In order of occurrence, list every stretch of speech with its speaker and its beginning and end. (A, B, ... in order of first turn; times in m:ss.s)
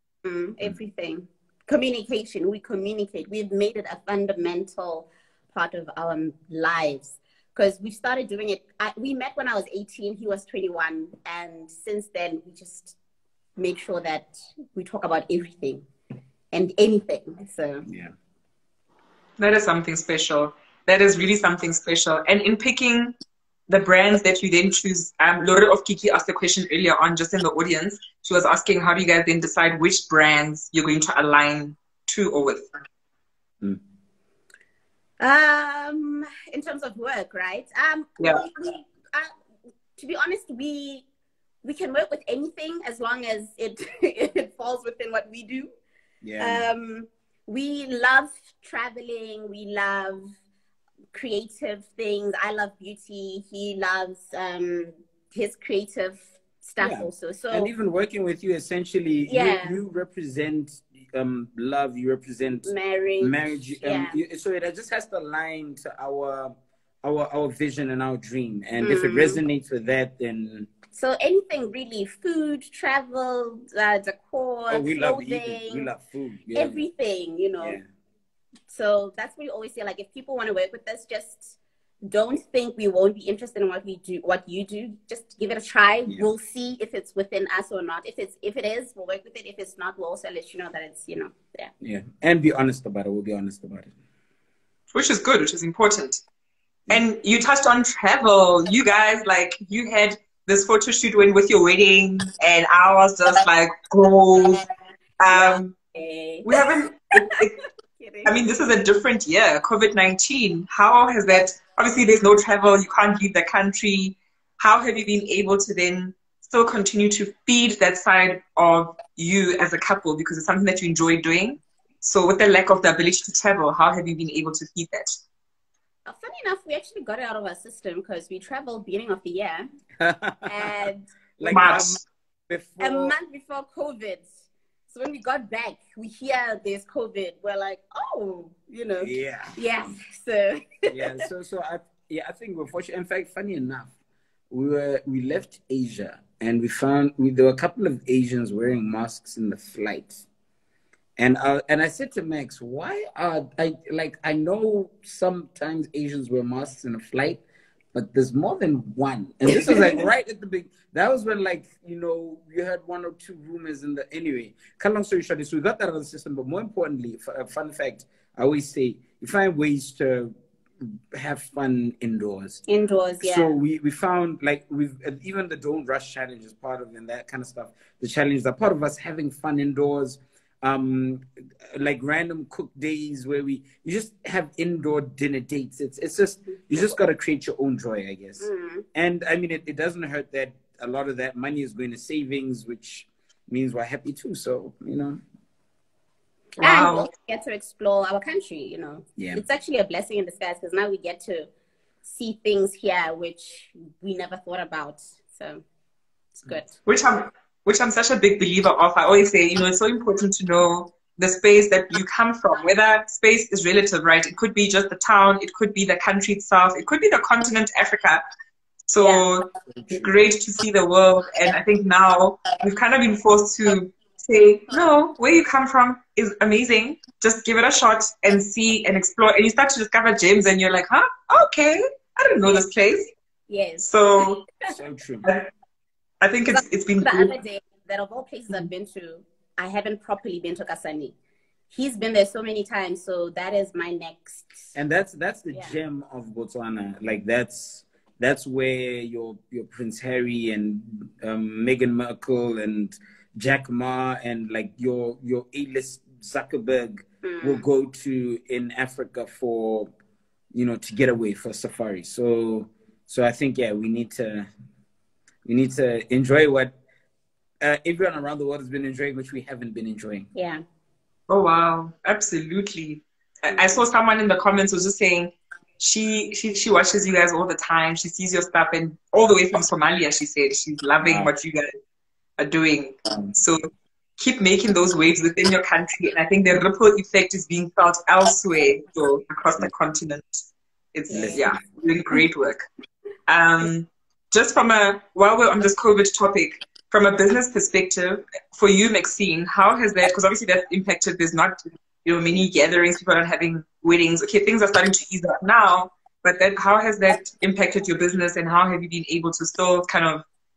0:00.2-0:13.0 A
0:13.6-0:15.9 A
0:16.5-0:17.9 A
0:17.9-0:18.1 B
0:19.4-0:23.2 C
0:23.7-0:32.8 C
0:35.2-0:39.3 A
0:40.0-0:41.0 A
0:41.6-0:45.7 A
0:46.2-0:46.7 B
0:46.4-0:50.4 A
0:51.1-0:57.7 A
0:56.8-1:10.7 B
0:59.3-0:59.8 A
1:02.6-1:04.2 A
1:08.8-1:09.4 A
1:10.9-1:15.9 A
1:14.7-1:16.8 B
1:16.6-1:17.8 A
1:17.6-1:17.8 B
1:18.7-1:21.6 A
1:22.1-1:31.7 A
1:31.8-1:33.9 B
1:34.9-1:36.2 C
1:36.9-1:44.7 C
1:45.2-1:45.8 C
1:45.3-1:47.4 A
1:46.4-1:47.6 C
1:48.0-1:48.4 A
1:48.2-2:05.2 C
2:06.1-2:09.6 A
2:10.0-2:10.8 B
2:10.5-2:11.1 A
2:11.4-2:13.2 B
2:11.4-2:12.0 C
2:12.8-2:14.3 A
2:14.9-2:21.2 A
2:19.0-2:19.9 B
2:20.9-2:23.9 B
2:24.5-2:30.2 B
2:31.2-2:37.4 B
2:37.9-2:52.6 B
2:52.7-2:53.5 A
2:53.2-3:15.2 B
3:08.4-3:08.8 A
3:16.6-3:17.1 C
3:16.6-3:21.5 A
3:19.2-3:19.4 B
3:22.0-3:25.6 A
3:26.4-3:26.7 A
3:26.9-3:38.2 C
3:38.9-3:53.1 C
3:39.0-3:39.3 A
3:39.7-3:40.1 B
3:53.5-3:53.9 A
3:53.8-3:54.4 C
3:54.7-3:55.3 B
3:55.2-3:55.5 C
3:56.2-3:57.4 C
3:56.5-4:01.2 A
4:01.7-4:04.7 A
4:04.8-4:19.9 B
4:17.2-4:17.6 A
4:20.5-4:24.5 B
4:25.4-4:26.7 B
4:27.6-4:30.3 B
4:30.4-4:30.6 A
4:31.3-4:41.7 C
4:41.0-4:41.3 B
4:42.4-4:52.6 C
4:51.1-4:51.4 A
4:51.1-4:51.5 B
4:53.3-5:10.2 C